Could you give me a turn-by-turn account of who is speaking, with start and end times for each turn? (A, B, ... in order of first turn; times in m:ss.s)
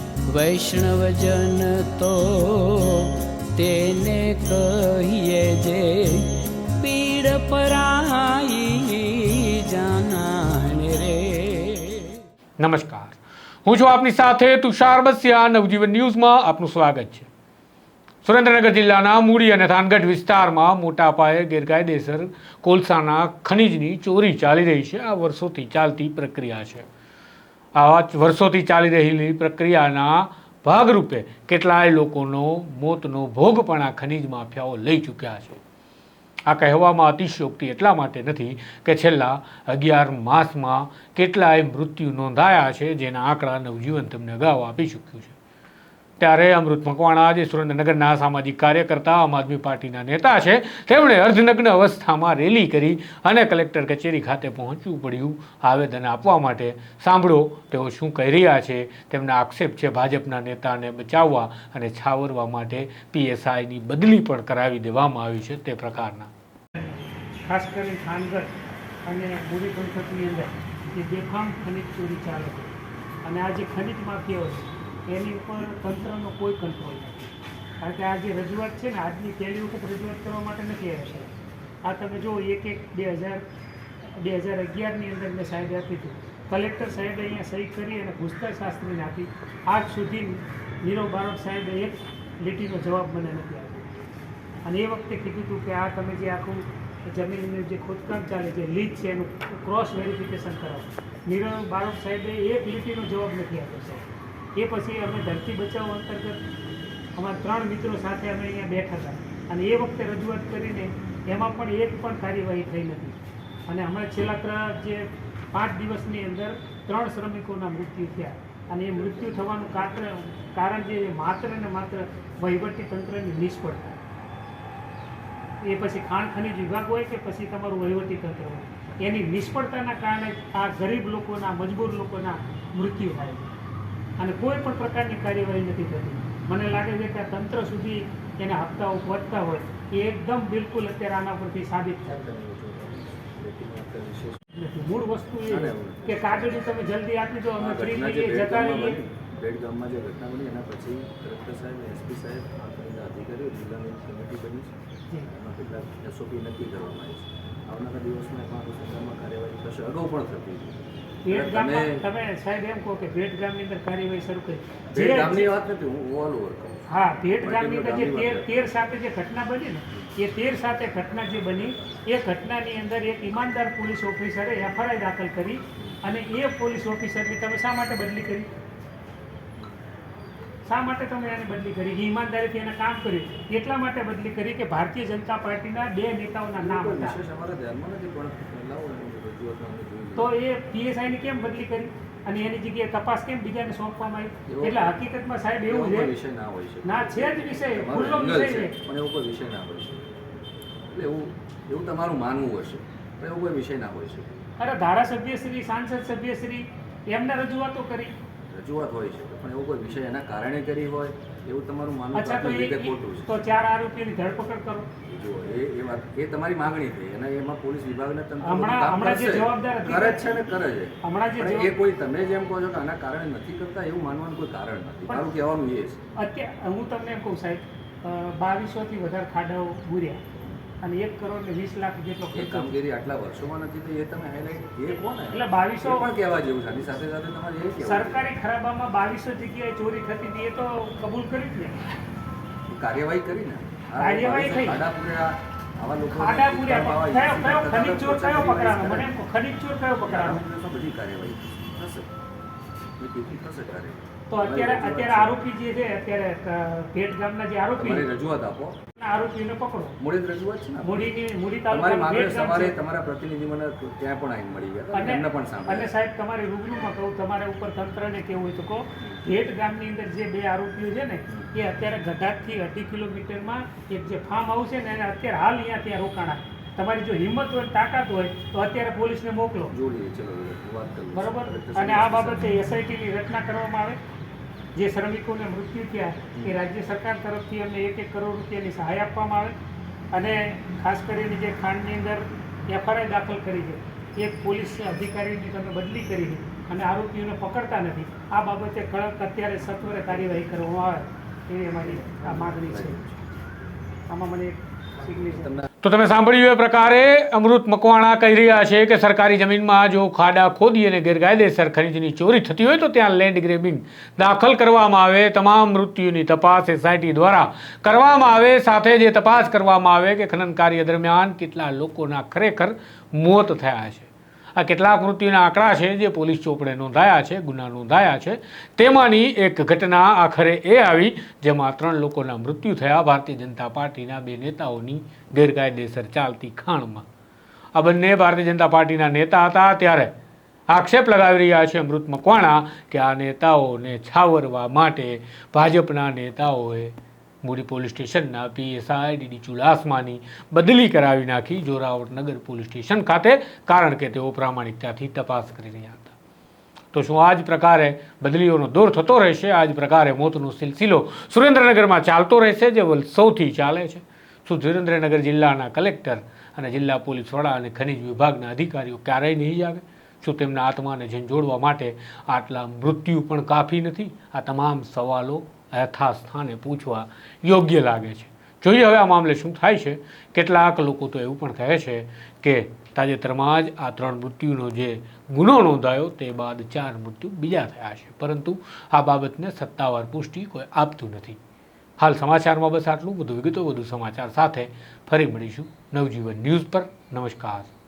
0:00.3-0:12.2 A
0:12.6-0:17.3 B
0:18.2-0:26.9 B
0:27.8-0:35.6 B
0:36.5-0:45.4 B
0:46.2-1:06.3 B
1:07.4-1:08.5 C
1:09.1-1:12.7 C
1:13.2-1:21.3 C
1:21.8-1:23.4 C
1:24.2-1:34.0 C
1:34.6-1:44.0 C
1:44.6-1:46.4 C
1:47.2-2:04.0 C
1:59.0-1:59.4 D
2:05.6-2:13.5 C
2:14.2-2:22.2 C
2:22.1-2:24.4 D
2:24.6-2:29.0 C
2:25.5-2:26.7 D
2:27.6-2:34.8 D
2:35.3-2:42.0 D
2:41.2-2:45.5 C
2:44.9-2:48.6 D
2:46.9-2:58.5 C
2:59.5-2:59.8 D
3:00.7-3:07.2 C
3:06.6-3:10.3 D
3:10.2-3:16.1 C
3:14.5-3:14.9 D
3:15.7-3:20.1 D
3:16.8-3:18.7 C
3:20.9-3:24.3 D
3:24.6-3:28.2 C
3:28.5-3:33.3 D
3:32.1-3:34.9 C
3:35.0-3:46.0 D
3:38.4-3:40.4 C
3:41.0-3:41.7 C
3:46.2-3:50.2 C
3:50.8-3:52.7 C
3:52.3-3:58.3 D
3:55.3-3:56.1 C
3:57.8-4:01.8 C
4:02.7-4:09.1 D
4:04.0-4:04.8 C
4:06.1-4:10.4 C
4:10.0-4:12.1 D
4:13.0-4:15.4 D
4:14.3-4:18.1 C
4:17.8-4:18.8 D
4:19.0-4:20.0 C
4:20.0-4:21.1 D
4:20.8-4:22.8 C
4:21.7-4:25.9 D
4:24.9-4:39.7 C
4:39.7-4:42.5 D
4:41.1-4:44.0 C
4:44.8-4:49.6 C
4:46.3-4:46.6 D
4:50.1-5:03.0 C
5:02.2-5:03.3 D
5:04.1-5:05.5 C
5:05.0-5:05.7 D
5:05.8-5:37.1 B
5:37.8-5:40.1 B
5:40.7-5:56.2 B
5:56.9-6:31.4 B
6:32.0-6:37.7 B